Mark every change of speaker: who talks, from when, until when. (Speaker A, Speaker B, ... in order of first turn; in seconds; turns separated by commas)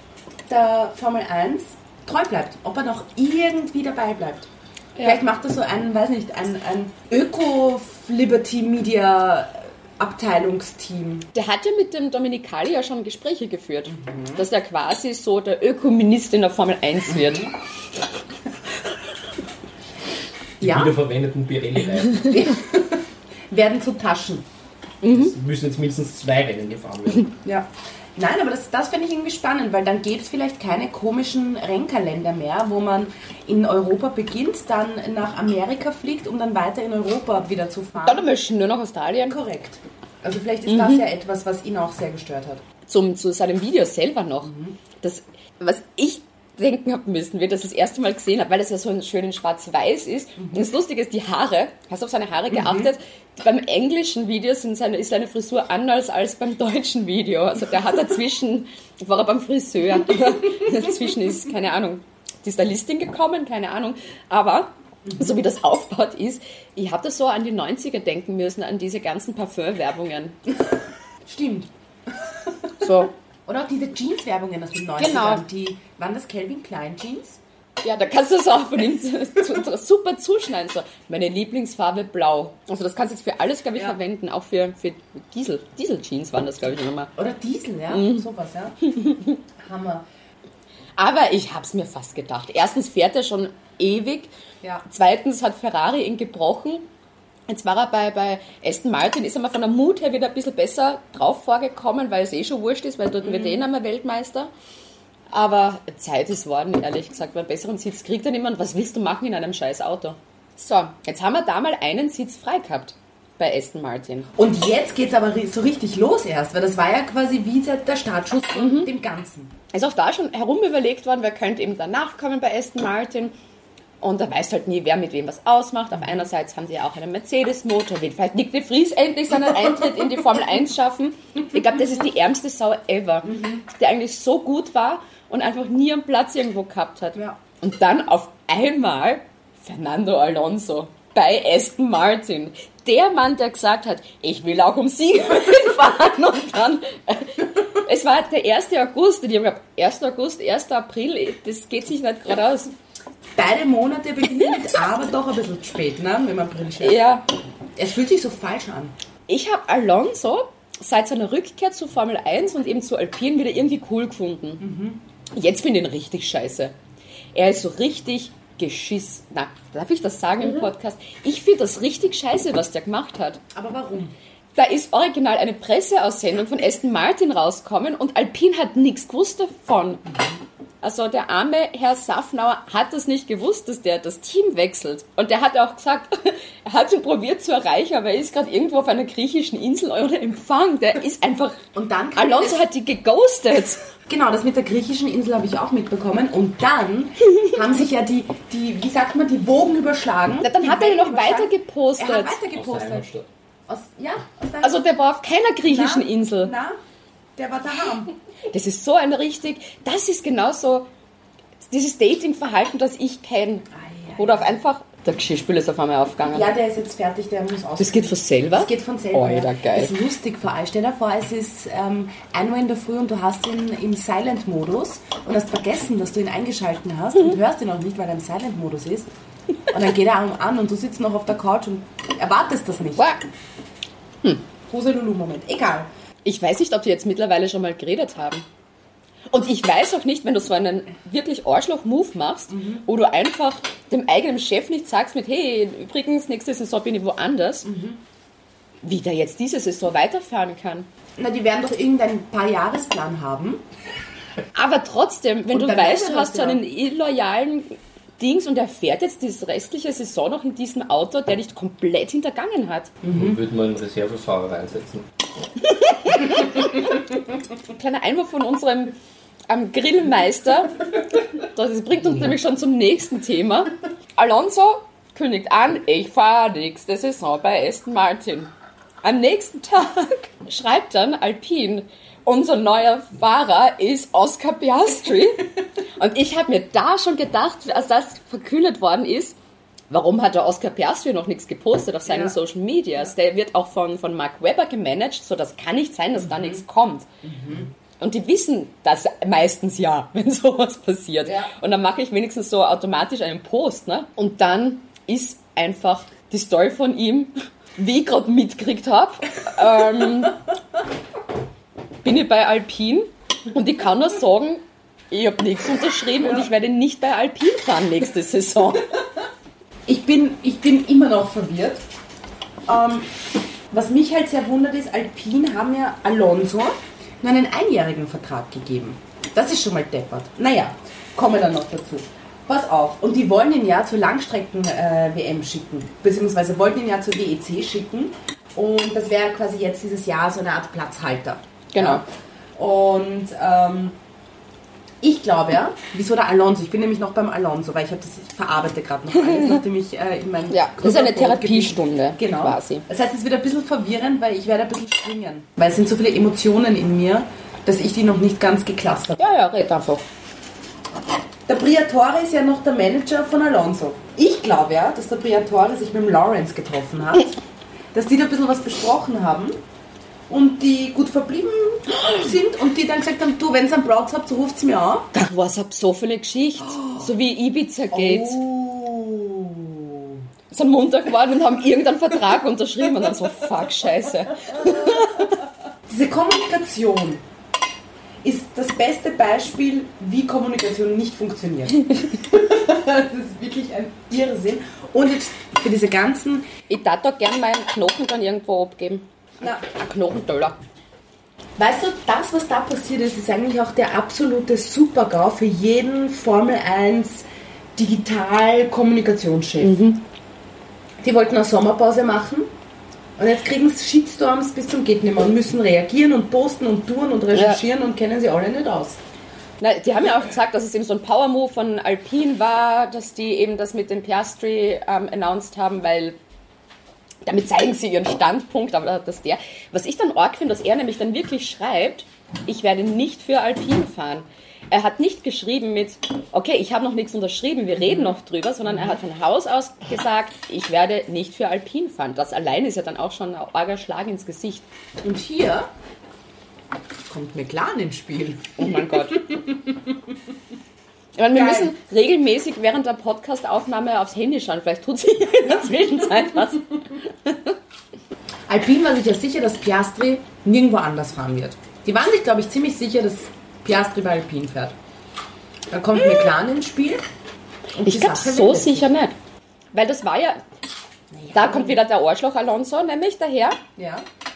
Speaker A: 0.5-4.5, Speaker B: 5.0-5.2, Speaker A: 5.0-11.3, Speaker B: 11.3-17.5, Speaker A: 13.9-14.5, Speaker A: 17.1-17.5, Speaker C: 20.6-22.4, Speaker A: 20.6-21.0, Speaker A: 22.1-24.4, Speaker B: 25.0-25.3, Speaker C: 25.1-27.4, Speaker A: 27.4-38.3, Speaker B: 38.0-39.4, Speaker A: 39.2-42.6, Speaker B: 40.6-41.0, Speaker B: 42.9-70.4, Speaker A: 44.4-44.8, Speaker A: 50.4-50.6, Speaker A: 52.5-52.9, Speaker A: 60.5-60.9, Speaker A: 65.0-65.4, Speaker A: 71.2-72.9, Speaker B: 72.8-73.1, Speaker A: 73.5-77.4, Speaker B: 75.0-75.4, Speaker B: 77.8-87.1, Speaker A: 87.2-89.0, Speaker B: 87.9-88.2, Speaker B: 88.9-89.3, Speaker A: 89.6-90.0, Speaker B: 91.0-94.3, Speaker B: 94.8-96.8, Speaker B: 97.5-104.5, Speaker A: 103.2-103.6, Speaker B: 105.3-114.3, Speaker A: 114.3-119.5, Speaker B: 118.5-118.9, Speaker B: 119.7-123.3, Speaker B: 124.0-152.7, Speaker A: 133.2-133.6, Speaker A: 153.3-157.0, Speaker B: 156.8-157.3, Speaker A: 157.8-158.9, Speaker B: 159.3-164.6, Speaker A: 164.6-165.0, Speaker B: 165.3-166.7, Speaker B: 167.3-173.4, Speaker A: 173.5-174.1, Speaker B: 174.6-180.0, Speaker A: 180.1-180.3, Speaker B: 180.8-191.6, Speaker A: 191.7-192.6, Speaker B: 192.1-193.8, Speaker A: 194.1-203.1, Speaker B: 200.4-202.4, Speaker C: 202.5-203.3, Speaker A: 203.7-204.8, Speaker B: 204.6-206.5, Speaker A: 205.6-206.8, Speaker A: 207.3-208.1, Speaker B: 208.5-210.9, Speaker B: 211.6-216.5, Speaker A: 213.7-214.6, Speaker A: 216.3-229.1, Speaker B: 217.8-219.9, Speaker A: 229.7-233.0, Speaker B: 232.9-233.3, Speaker A: 234.7-235.9, Speaker B: 236.2-238.4, Speaker B: 239.3-247.7, Speaker A: 242.5-242.8, Speaker A: 247.6-248.0, Speaker B: 248.8-250.9, Speaker A: 251.2-253.6, Speaker B: 254.5-262.9, Speaker A: 255.5-256.6, Speaker A: 263.0-263.4, Speaker C: 263.1-265.1, Speaker B: 265.8-267.0, Speaker B: 267.7-268.9, Speaker B: 269.5-270.8, Speaker B: 271.3-278.5, Speaker B: 279.0-289.4, Speaker B: 289.9-297.1, Speaker A: 292.1-292.4, Speaker A: 296.2-296.6, Speaker A: 297.2-297.7, Speaker B: 298.0-310.4, Speaker A: 301.2-301.5, Speaker B: 312.0-319.0, Speaker A: 316.2-316.5, Speaker A: 319.9-321.8, Speaker A: 322.6-323.1, Speaker A: 323.7-342.0, Speaker B: 341.7-342.0, Speaker A: 342.6-344.0, Speaker A: 345.0-359.3, Speaker B: 349.2-349.5, Speaker B: 350.5-352.8, Speaker B: 359.1-360.0, Speaker A: 361.4-367.4, Speaker A: 367.9-369.6, Speaker A: 370.3-375.1, Speaker B: 375.1-378.4, Speaker A: 376.6-377.1, Speaker A: 377.9-380.2, Speaker B: 380.5-385.3, Speaker A: 384.4-387.2, Speaker A: 388.2-396.5, Speaker B: 396.7-400.6, Speaker A: 401.6-410.0, Speaker A: 411.0-412.5, Speaker A: 413.2-419.0, Speaker B: 417.3-417.6, Speaker B: 419.6-426.2, Speaker B: 427.2-444.6, Speaker A: 437.8-438.1, Speaker A: 445.0-445.7, Speaker A: 447.1-450.2, Speaker B: 448.6-449.2, Speaker B: 451.1-457.4, Speaker A: 451.3-451.7, Speaker A: 455.4-456.6, Speaker A: 458.5-464.8, Speaker A: 465.7-467.1, Speaker A: 467.7-468.9, Speaker B: 467.8-469.1, Speaker B: 469.7-470.4, Speaker A: 471.1-471.8, Speaker B: 471.3-473.6, Speaker A: 473.8-474.1